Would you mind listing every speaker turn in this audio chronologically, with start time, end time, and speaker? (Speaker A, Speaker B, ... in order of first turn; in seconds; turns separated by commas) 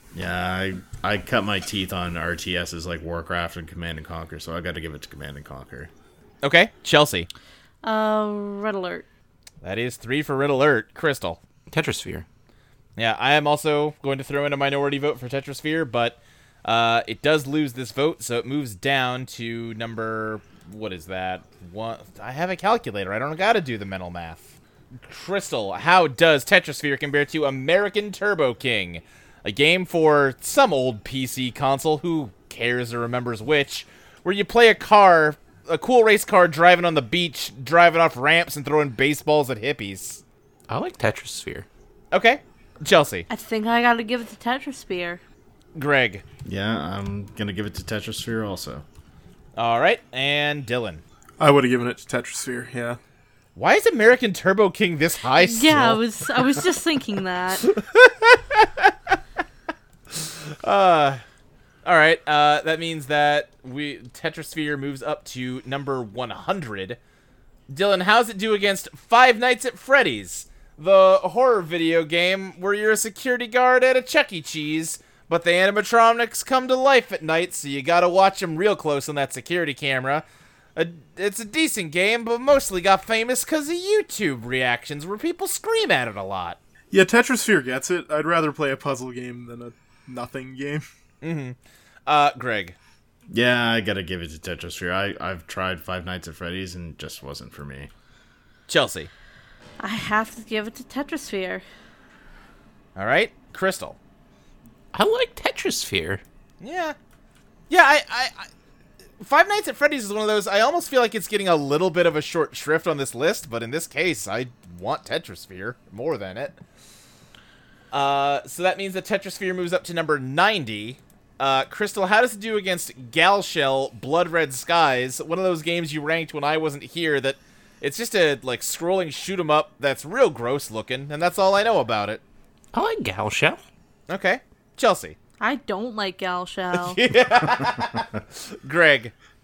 Speaker A: 0.1-5.9, Speaker B: 6.4-7.3, Speaker C: 7.8-9.1, Speaker B: 9.6-11.4, Speaker D: 11.7-12.2, Speaker B: 13.0-24.4, Speaker B: 25.1-40.2, Speaker D: 40.7-41.6, Speaker B: 42.1-43.3, Speaker C: 43.3-45.2, Speaker B: 45.7-46.2, Speaker A: 46.4-48.8, Speaker B: 49.5-51.0, Speaker E: 51.4-53.0, Speaker B: 53.5-56.6, Speaker C: 55.4-57.7, Speaker B: 57.6-58.9, Speaker B: 60.2-61.2, Speaker B: 61.8-67.0, Speaker B: 67.7-80.2, Speaker B: 80.8-86.6, Speaker E: 86.9-90.8, Speaker B: 91.2-92.8, Speaker A: 93.3-97.9, Speaker B: 98.7-99.1, Speaker C: 99.8-101.6, Speaker B: 103.0-104.0, Speaker D: 104.9-106.2, Speaker B: 106.6-107.0, Speaker B: 107.7-108.5, Speaker B: 109.2-116.6, Speaker B: 117.9-132.2, Speaker D: 132.7-133.6, Speaker B: 134.1-135.2, Speaker C: 135.4-137.0, Speaker B: 136.7-139.1